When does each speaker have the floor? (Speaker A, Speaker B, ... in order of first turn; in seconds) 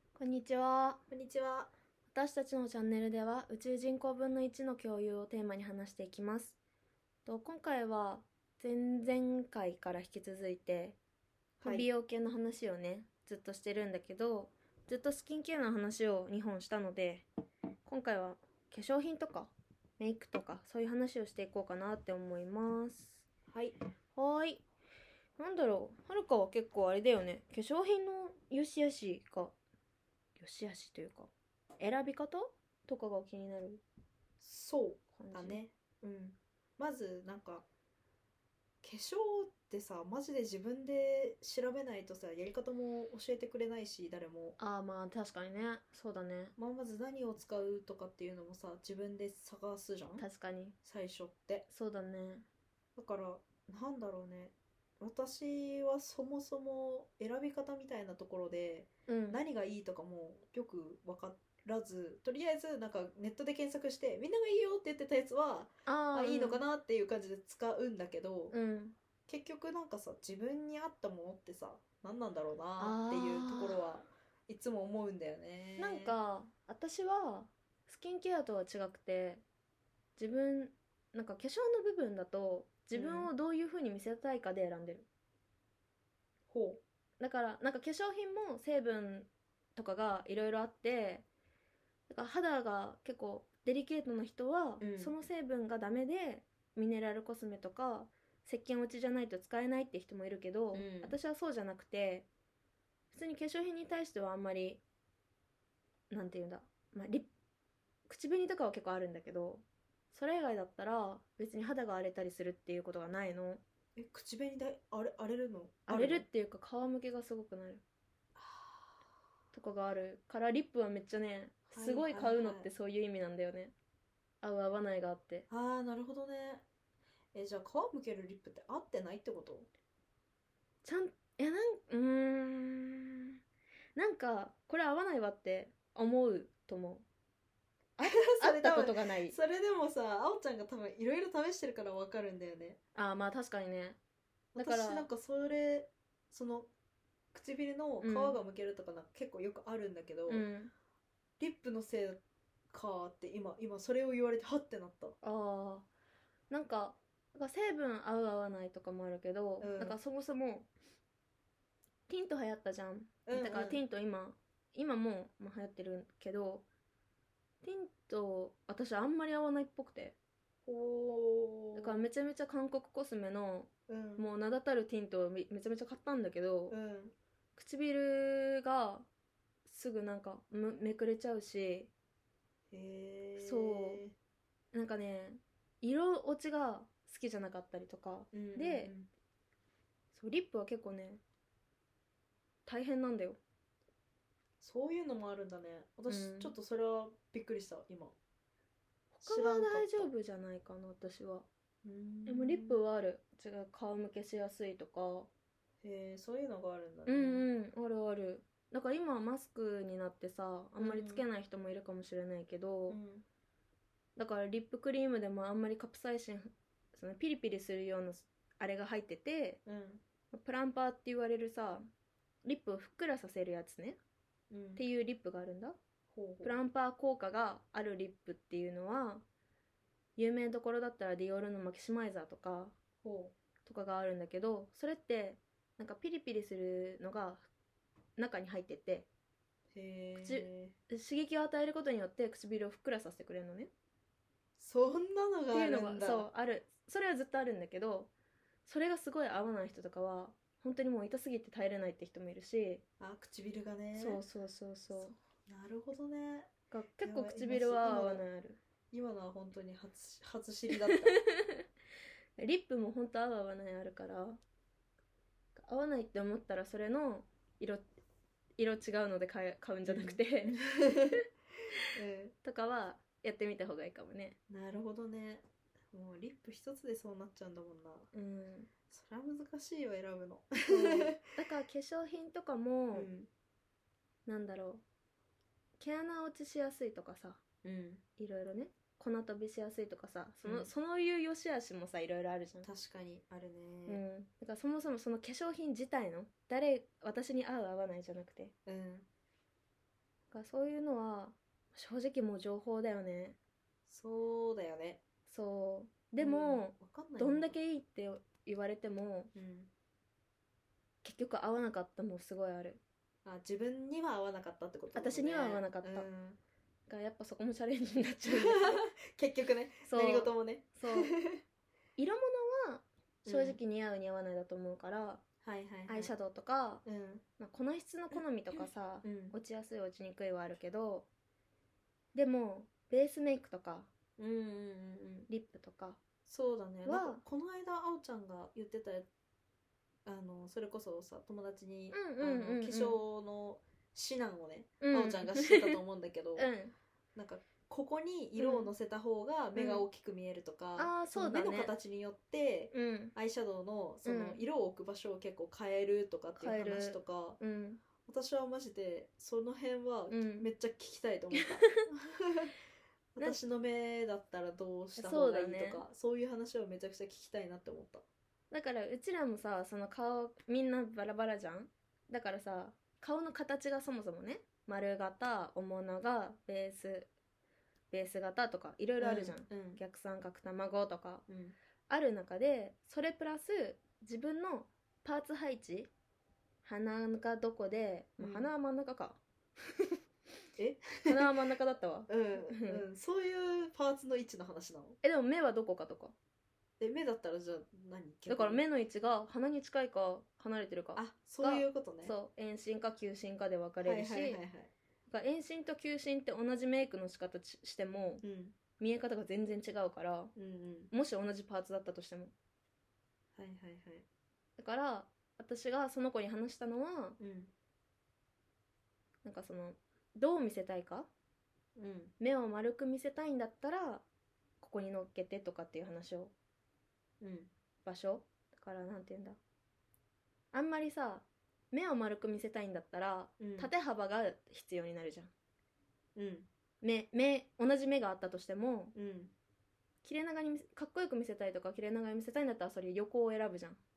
Speaker A: 0.1-1.0, 2.1-6.6, 7.2-11.0, 11.6-17.3, 17.8-23.2, 24.1-24.6, 25.4-29.5, 30.4-33.8, 35.1-35.6, 44.6-46.5, 50.2-50.8, 51.7-52.5, 59.1-59.4, 65.8-66.6, 68.5-69.0, 72.8-73.9, 75.8-79.4, 80.2-85.1, 87.2-91.2, 92.1-102.3, 103.1-104.8, 106.1-107.3, 108.1-113.6, 115.9-117.8, 119.5-123.7, 124.4-125.5, 130.8-133.4, 133.9-137.0, 138.0-139.4, 142.9-144.0, 144.6-145.1, 148.0-148.4, 150.3-150.7, 155.2-155.9, 156.5-160.7, 162.1-166.7, 167.6-170.2, 171.7-176.8, 177.6-179.1, 179.7-181.9, 183.4-184.0, 184.7-188.9, 190.1-191.2, 192.7-193.4, 196.1-196.5, 199.2-201.5, 202.2-205.3, 207.1-213.0, 214.2-219.6, 220.3-221.8, 222.4-224.0, 224.8-225.8, 226.4-229.2, 230.2-232.7, 233.6-237.5, 238.2-239.1, 240.2-243.7, 245.5-248.1, 248.7-252.8, 253.9-255.1, 256.7-258.6, 262.4-264.4, 265.6-267.8, 268.6-270.6, 272.4-274.4, 278.1-278.7, 280.7-283.1, 284.2-284.8, 285.8-287.4, 288.2-292.7, 293.9-298.5, 300.3-303.4, 305.3-309.3, 311.0-312.8, 314.9-316.1, 316.9-318.8, 319.8-321.1, 322.0-325.2, 325.9-326.8, 327.4-331.1, 332.1-333.9, 335.3-336.0, 336.8-337.2, 341.9-343.0, 344.8-345.8, 346.4-346.7, 348.4-348.7, 349.5-349.8, 350.8-351.7, 352.7-353.1, 354.0-354.4, 356.4-357.8, 360.1-360.5, 361.3-361.8, 363.2-363.5, 365.0-365.8, 368.5-377.1, 377.9-381.2, 381.9-385.9, 386.6-389.2, 391.1-392.8, 395.0-396.1, 398.3-404.4, 405.1-408.2, 408.8-410.3, 410.9-412.3, 414.6-417.2, 419.2-421.1, 422.2-424.0, 424.6-426.3, 427.8-429.4, 430.5-435.3, 436.8-438.9, 440.0-443.8
Speaker B: 1.1-1.7, 11.6-11.9, 23.5-23.8, 34.4-37.6, 38.8-44.6, 46.6-50.2, 50.8-51.6, 53.0-68.5, 69.3-76.2, 82.9-83.3, 86.5-86.8, 94.8-95.1, 100.7-101.2, 114.0-116.2, 118.3-119.0, 121.7-122.7, 125.5-126.6, 127.3-129.7, 138.0-142.8, 144.5-146.7, 147.3-150.5, 151.4-155.2, 159.6-160.0, 163.2-163.8, 170.7-172.1, 173.9-174.3, 176.7-177.1, 182.7-184.1, 188.3-189.1, 194.6-198.2, 199.2-200.1, 201.8-202.8, 205.8-207.4, 210.8-211.2, 212.9-213.2, 219.7-220.0, 224.5-224.8, 226.1-226.6, 233.0-233.3, 239.7-240.8, 244.6-246.3, 253.0-254.2, 254.9-258.2, 258.9-261.2, 269.8-271.2, 271.9-272.3, 274.5-278.1, 278.9-281.2, 282.9-283.3, 287.6-288.0, 290.4-290.7, 292.6-294.0, 298.6-299.1, 303.9-305.0, 306.2-307.5, 309.3-309.7, 313.2-316.4, 318.2-321.4, 323.2-323.6, 325.4-326.1, 326.8-327.2, 329.0-329.4, 334.2-335.3, 336.3-339.1, 340.0-346.5, 347.1-357.4, 358.1-362.5, 363.1-368.1, 379.0-379.8, 381.3-381.6, 388.2-388.5, 390.6-391.3, 392.1-395.0, 396.8-398.6, 400.9-402.1, 403.8-404.7, 408.2-408.6, 410.4-410.9, 413.3-414.1, 417.2-417.5, 421.8-422.1, 427.2-427.5, 433.4-433.7, 436.1-436.5, 438.9-439.3